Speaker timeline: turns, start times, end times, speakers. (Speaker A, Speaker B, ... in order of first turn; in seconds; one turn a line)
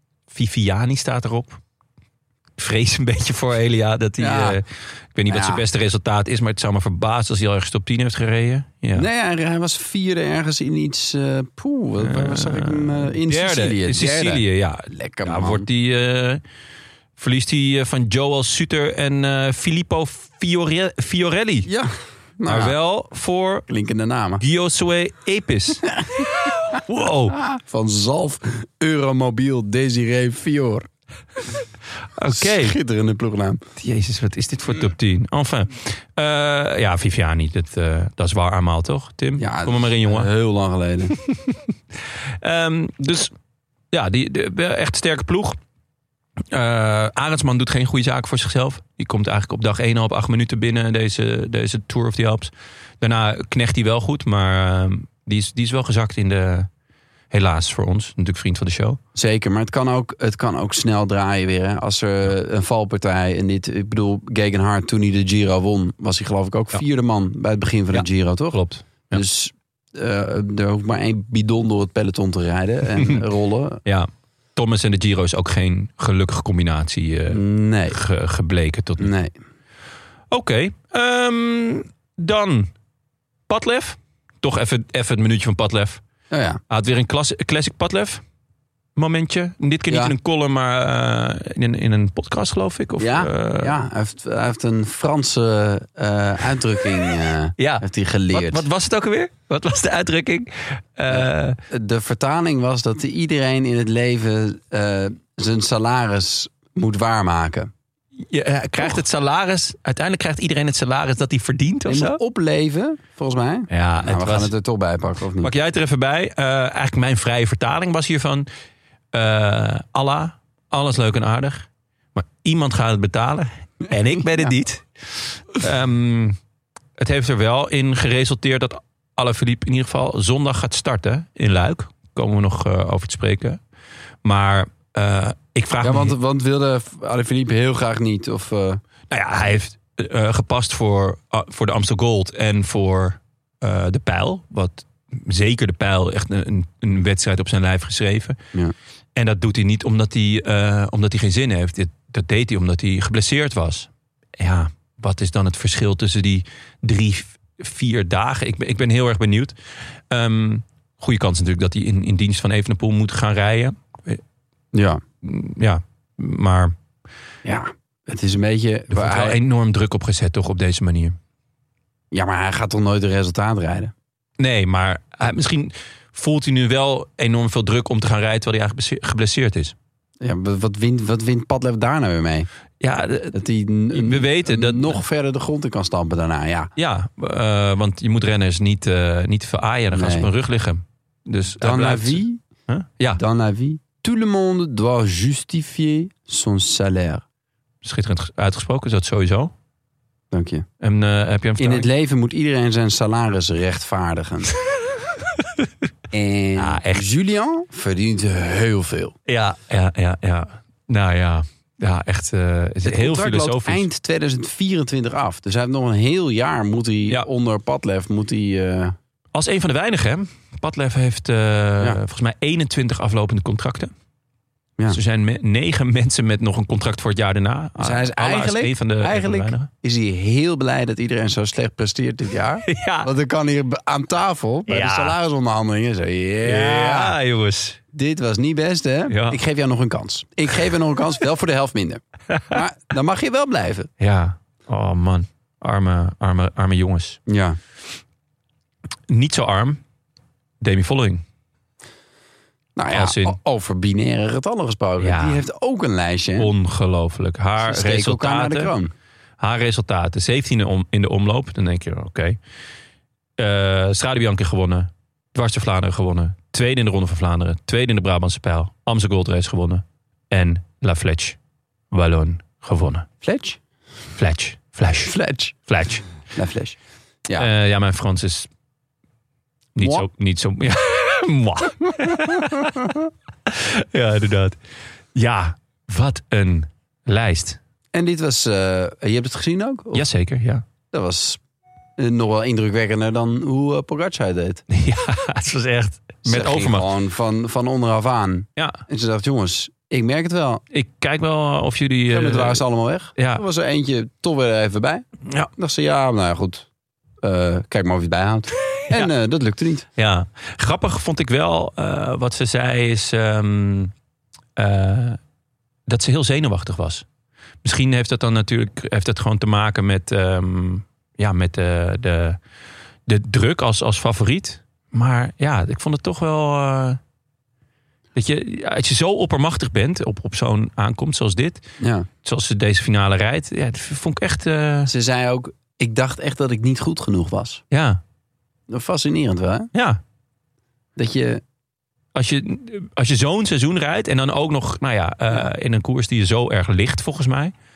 Speaker A: 0.3-1.6
Speaker A: 2.6-9.1
Speaker B: 4.2-4.6
Speaker B: 5.3-5.6
Speaker B: 8.9-15.7
Speaker A: 12.0-16.4
Speaker A: 17.2-21.7
Speaker B: 21.6-22.7
Speaker A: 22.4-23.6
Speaker B: 23.7-24.4
Speaker A: 24.4-27.4
Speaker B: 27.3-30.9
Speaker A: 32.1-32.8
Speaker B: 32.3-33.6
Speaker A: 33.8-40.3
Speaker B: 39.4-41.1
Speaker A: 41.3-41.6
Speaker A: 42.4-43.3
Speaker A: 43.9-45.6
Speaker A: 46.5-56.7
Speaker A: 57.3-59.0
Speaker B: 59.1-73.8
Speaker A: 67.9-69.2
Speaker A: 73.9-79.1
Speaker B: 77.3-78.0
Speaker B: 79.0-79.3
Speaker A: 80.3-82.7
Speaker A: 83.5-86.0
Speaker B: 86.3-86.6
Speaker A: 86.7-88.2
Speaker A: 89.0-93.8
Speaker B: 93.0-98.6
Speaker A: 97.6-101.6
Speaker B: 101.1-107.7
Speaker A: 108.3-112.2
Speaker B: 111.9-115.5
Speaker A: 113.7-114.5
Speaker A: 115.4-118.5
Speaker A: 119.1-126.4
Speaker A: 127.0-133.6
Speaker A: 134.2-136.1
Speaker B: 135.8-138.8
Speaker A: 139.1-148.4
Speaker A: 149.2-159.6
Speaker A: 160.1-164.2
Speaker B: 164.7-165.0
Speaker A: 165.2-166.7
Speaker B: 167.4-169.4
Speaker A: 168.9-171.2
Speaker B: 172.1-173.9
Speaker A: 174.4-179.7
Speaker B: 180.2-182.5
Speaker A: 182.8-183.4
Speaker B: 183.3-186.7
Speaker A: 183.9-185.0
Speaker A: 186.8-193.2
Speaker B: 189.9-190.3
Speaker B: 191.6-192.4
Speaker B: 193.1-197.2
Speaker A: 197.8-199.5
Speaker B: 200.3-200.7
Speaker A: 200.8-201.9
Speaker B: 201.6-204.5
Speaker B: 206.1-209.1
Speaker A: 206.6-207.0
Speaker A: 209.3-213.9
Speaker B: 212.8-218.9
Speaker A: 219.3-223.9
Speaker A: 224.9-229.7
Speaker B: 227.8-237.2
Speaker A: 232.7-233.1
Speaker A: 234.7-235.1
Speaker A: 236.4-237.8
Speaker B: 237.9-243.9
Speaker A: 239.1-239.4
Speaker A: 244.0-247.2
Speaker B: 247.3-247.6
Speaker A: 249.1-249.8
Speaker A: 250.6-251.2
Speaker B: 252.8-256.5
Speaker A: 252.9-253.4
Speaker A: 255.0-255.4
Speaker A: 256.4-258.7
Speaker B: 257.6-258.9
Speaker A: 259.4-262.4
Speaker A: 263.4-271.4
Speaker A: 271.9-273.1
Speaker B: 273.2-273.6
Speaker A: 274.2-275.1
Speaker B: 275.1-275.6
Speaker A: 275.7-276.1
Speaker B: 276.4-277.5
Speaker A: 277.4-278.5
Speaker A: 279.8-282.9
Speaker B: 279.8-280.1
Speaker A: 283.5-284.6
Speaker A: 285.1-287.6
Speaker B: 287.9-290.1
Speaker A: 289.9-290.6
Speaker B: 290.9-291.4
Speaker B: 292.0-294.6
Speaker A: 294.7-296.9
Speaker B: 296.2-300.6
Speaker A: 300.7-302.6
Speaker B: 302.1-306.7
Speaker A: 303.2-303.4
Speaker B: 307.2-309.9
Speaker A: 310.0-313.9
Speaker A: 314.6-315.2
Speaker A: 315.9-317.1
Speaker A: 317.6-322.4
Speaker A: 323.1-327.0
Speaker A: 328.1-331.6
Speaker B: 331.8-332.1
Speaker A: 332.2-334.9
Speaker B: 334.9-337.6
Speaker A: 337.7-338.0
Speaker B: 338.7-339.7
Speaker A: 339.7-340.0
Speaker B: 340.9-341.4
Speaker A: 342.1-347.5